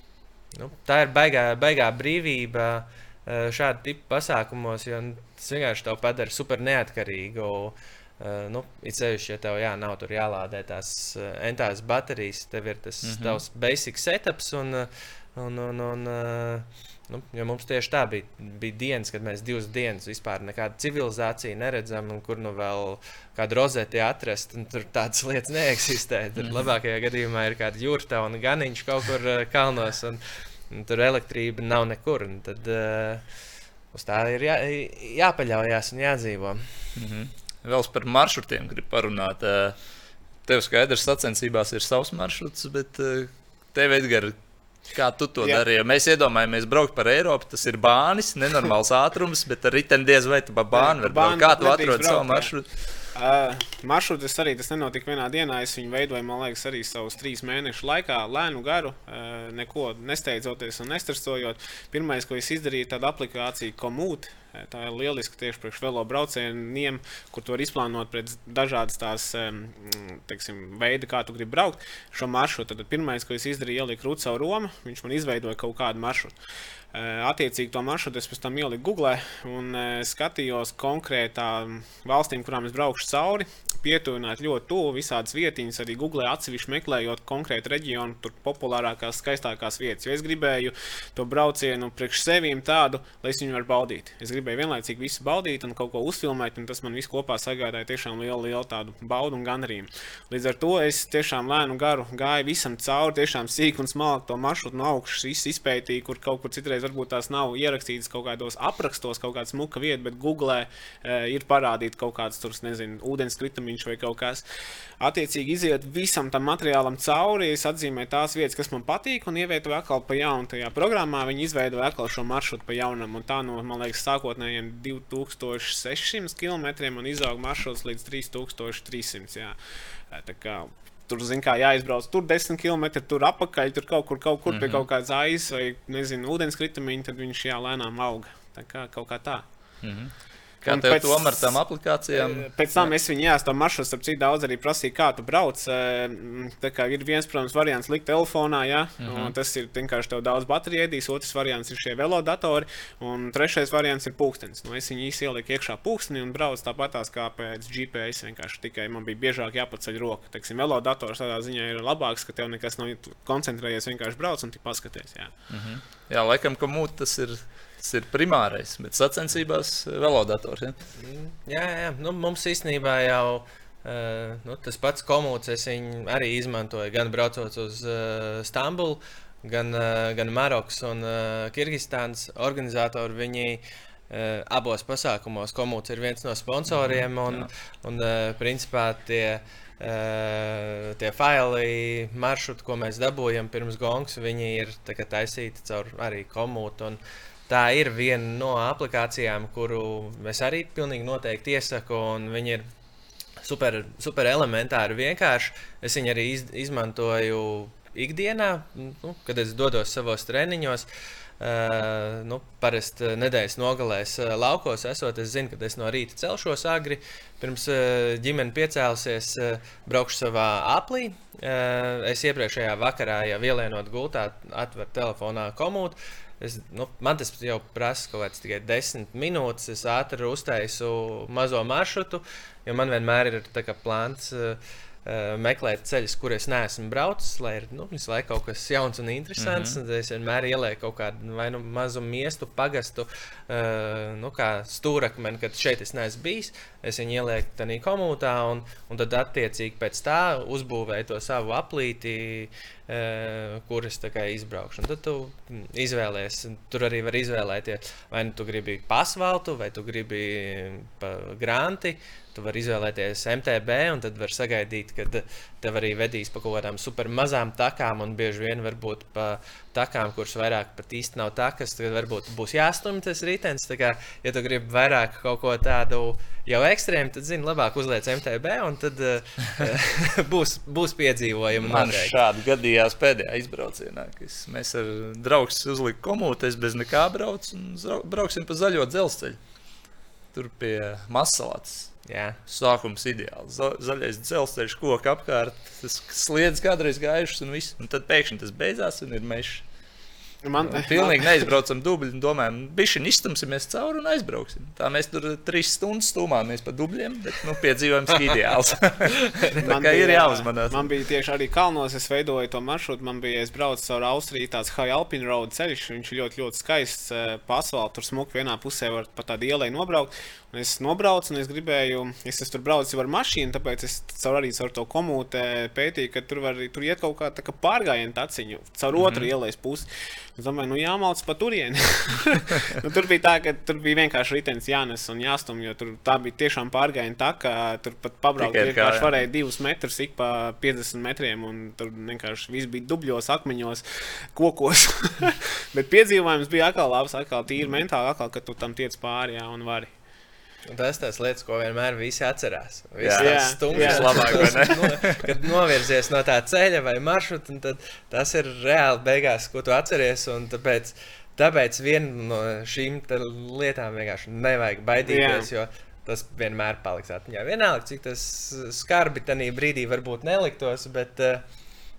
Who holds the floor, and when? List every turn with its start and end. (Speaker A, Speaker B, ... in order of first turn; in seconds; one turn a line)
Speaker A: 0.6-33.2
Speaker B: 13.0-13.4
Speaker B: 26.4-26.6
Speaker A: 33.9-36.7
Speaker B: 37.0-39.8
Speaker B: 40.5-44.4
Speaker B: 44.9-52.7
Speaker C: 50.7-52.5
Speaker C: 53.1-76.3
Speaker C: 76.9-114.4
Speaker C: 115.0-129.6
Speaker C: 130.1-139.5
Speaker B: 134.5-134.8
Speaker B: 139.8-142.9
Speaker C: 140.6-141.6
Speaker C: 142.1-165.3
Speaker B: 149.0-149.3
Speaker B: 165.5-170.8
Speaker A: 171.0-202.6
Speaker B: 186.7-187.5
Speaker A: 203.4-210.9
Speaker A: 211.4-282.1
Speaker B: 239.4-239.8
Speaker B: 281.6-289.4
Speaker B: 290.3-291.9
Speaker A: 292.1-292.4
Speaker B: 292.5-299.6
Speaker C: 300.4-301.5
Speaker B: 300.6-310.9
Speaker C: 309.6-349.9
Speaker B: 328.9-329.3
Speaker B: 338.4-339.2
Speaker A: 350.7-371.4
Speaker B: 353.0-355.3
Speaker C: 353.2-354.7
Speaker C: 365.0-365.5